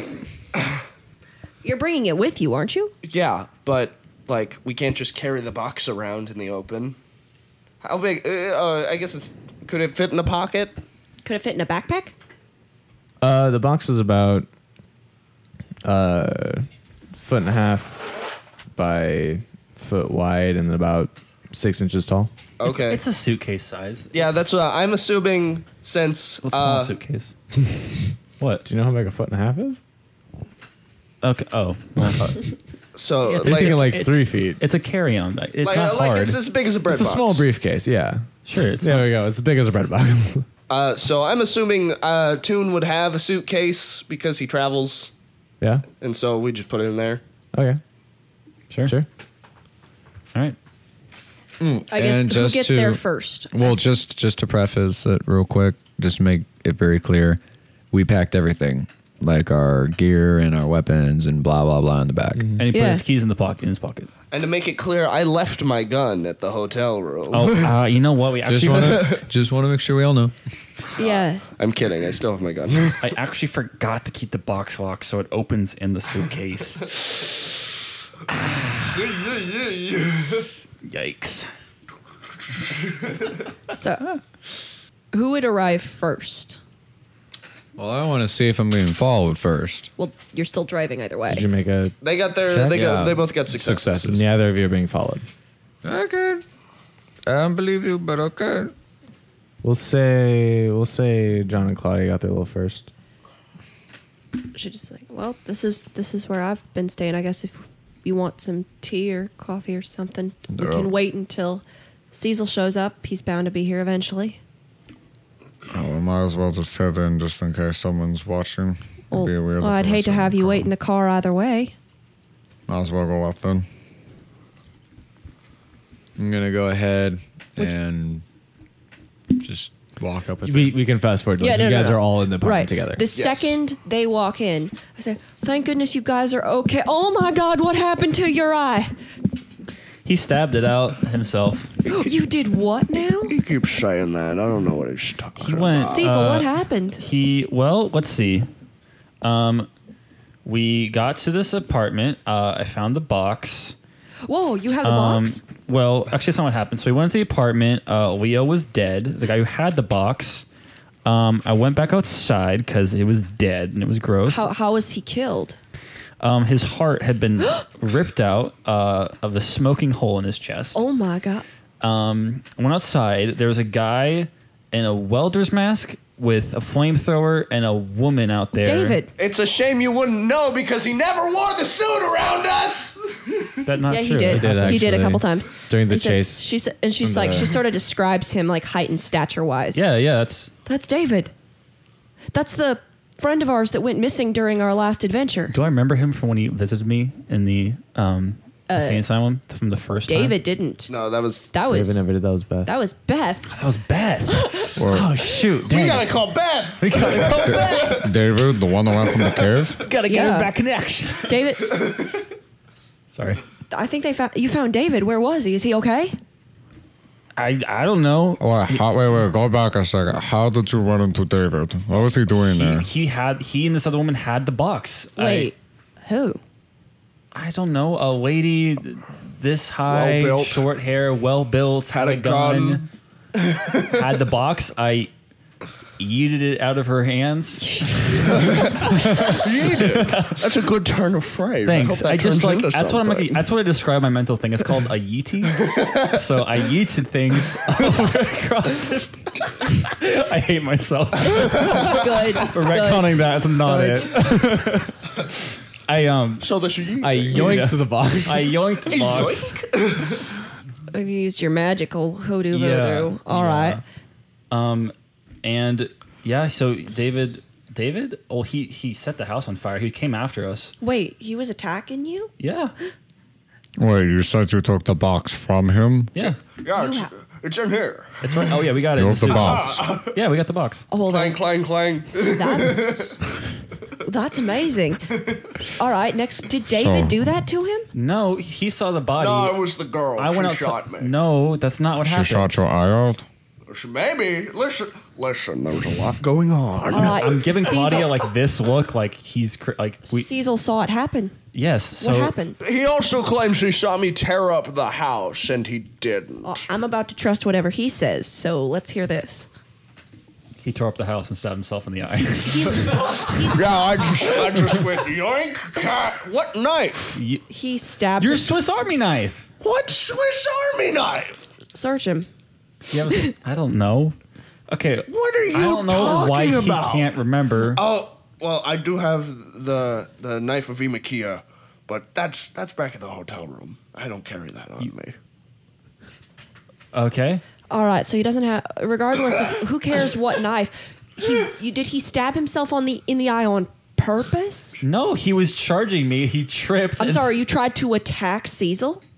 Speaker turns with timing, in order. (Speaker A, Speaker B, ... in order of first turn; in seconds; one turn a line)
Speaker A: 1.6-2.9
Speaker B: 3.0-7.0
Speaker B: 7.8-10.8
Speaker A: 11.2-12.1
Speaker C: 13.2-14.5
Speaker C: 15.8-18.1
Speaker C: 18.8-22.3
Speaker B: 22.6-23.0
Speaker D: 22.6-24.4
Speaker B: 24.1-26.9
Speaker D: 26.4-27.3
Speaker D: 28.4-28.6
Speaker C: 28.6-29.8
Speaker D: 31.2-32.4
Speaker B: 32.9-33.9
Speaker D: 33.2-36.4
Speaker C: 33.4-34.6
Speaker B: 35.6-37.5
Speaker C: 36.9-38.3
Speaker D: 38.5-39.1
Speaker C: 38.8-40.4
Speaker B: 40.7-45.1
Speaker C: 45.6-45.9
Speaker B: 46.0-47.2
Speaker C: 47.5-47.8
Speaker E: 51.6-57.4
Speaker A: 51.9-53.8
Speaker E: 57.9-62.5
Speaker C: 62.4-62.6
Speaker D: 62.6-64.1
Speaker A: 62.7-63.0
Speaker B: 64.3-67.7
Speaker D: 67.3-69.2
Speaker E: 68.4-70.3
Speaker B: 68.8-69.0
Speaker B: 71.0-73.1
Speaker A: 71.0-71.4
Speaker D: 73.0-77.0
Speaker D: 78.3-79.1
Speaker B: 78.9-80.5
Speaker D: 80.8-81.5
Speaker A: 83.7-84.1
Speaker A: 85.1-86.6
Speaker E: 87.8-89.9
Speaker A: 90.0-91.5
Speaker C: 91.3-91.9
Speaker B: 92.0-94.0
Speaker C: 92.5-92.8
Speaker E: 92.5-94.3
Speaker C: 94.0-95.3
Speaker E: 95.8-96.4
Speaker E: 97.2-98.7
Speaker C: 99.6-102.9
Speaker A: 104.5-114.4
Speaker E: 110.5-110.9
Speaker E: 115.7-120.7
Speaker A: 119.1-121.7
Speaker E: 122.7-123.7
Speaker E: 126.2-128.2
Speaker E: 129.3-130.8
Speaker C: 130.4-133.0
Speaker A: 131.4-138.9
Speaker B: 133.1-133.6
Speaker D: 140.0-141.7
Speaker A: 141.8-143.3
Speaker B: 143.2-146.1
Speaker D: 145.4-148.5
Speaker A: 145.9-147.0
Speaker D: 149.2-149.7
Speaker D: 150.4-153.7
Speaker A: 154.2-155.4
Speaker D: 154.8-160.4
Speaker D: 161.0-164.5
Speaker A: 164.3-165.6
Speaker D: 166.2-170.8
Speaker A: 170.7-171.4
Speaker D: 171.8-179.0
Speaker A: 178.6-179.1
Speaker B: 179.2-183.6
Speaker D: 183.6-185.0
Speaker A: 183.9-189.8
Speaker C: 184.3-186.4
Speaker C: 187.0-187.6
Speaker D: 189.7-190.5
Speaker A: 190.7-191.3
Speaker A: 192.3-195.6
Speaker D: 195.5-200.4
Speaker A: 198.7-199.0
Speaker A: 200.1-200.9
Speaker B: 200.9-201.5
Speaker A: 201.5-202.0
Speaker C: 201.7-202.7
Speaker A: 202.6-203.5
Speaker D: 203.5-206.2
Speaker A: 204.3-204.7
Speaker E: 204.8-205.1
Speaker B: 205.6-208.1
Speaker D: 206.8-208.0
Speaker E: 207.5-209.8
Speaker D: 209.8-211.4
Speaker A: 210.1-210.5
Speaker A: 211.2-211.8
Speaker D: 213.1-213.4
Speaker A: 213.7-216.2
Speaker D: 217.4-218.8
Speaker E: 218.4-222.9
Speaker D: 222.3-225.5
Speaker A: 225.2-226.4
Speaker D: 227.3-232.9
Speaker B: 229.8-230.7
Speaker B: 231.9-234.0
Speaker D: 233.8-235.1
Speaker D: 236.0-240.4
Speaker B: 238.2-243.4
Speaker D: 241.6-255.3
Speaker B: 245.6-246.2
Speaker A: 251.6-254.1
Speaker D: 255.8-256.5
Speaker B: 256.4-257.5
Speaker C: 257.0-258.6
Speaker D: 257.3-259.6
Speaker B: 258.8-260.3
Speaker A: 260.9-263.8
Speaker D: 262.5-263.8
Speaker D: 264.5-270.7
Speaker A: 270.8-272.3
Speaker D: 272.4-272.7
Speaker E: 273.8-276.1
Speaker B: 276.6-278.5
Speaker A: 276.7-277.1
Speaker D: 278.2-280.9
Speaker E: 278.9-279.9
Speaker B: 279.2-280.1
Speaker A: 280.9-281.4
Speaker B: 281.1-283.2
Speaker A: 282.3-283.2
Speaker A: 284.0-285.1
Speaker B: 285.1-285.5
Speaker A: 285.8-287.9
Speaker E: 286.7-287.2
Speaker D: 287.9-289.6
Speaker B: 289.1-291.1
Speaker D: 290.2-292.6
Speaker E: 292.0-293.2
Speaker B: 293.7-297.4
Speaker A: 296.9-298.2
Speaker D: 297.0-300.3
Speaker A: 300.1-301.3
Speaker D: 301.5-302.4
Speaker A: 302.0-302.6
Speaker B: 302.6-306.7
Speaker A: 306.4-309.5
Speaker D: 310.6-313.2
Speaker A: 312.2-314.4
Speaker B: 313.2-317.2
Speaker D: 317.1-317.4
Speaker A: 317.5-318.5
Speaker D: 318.2-319.5
Speaker B: 319.6-321.5
Speaker A: 321.7-322.3
Speaker D: 322.9-324.1
Speaker A: 323.1-323.3
Speaker D: 324.7-327.8
Speaker B: 325.1-327.1
Speaker B: 327.6-335.1
Speaker D: 336.9-337.4
Speaker A: 337.7-344.8
Speaker D: 344.8-347.4
Speaker A: 347.0-349.0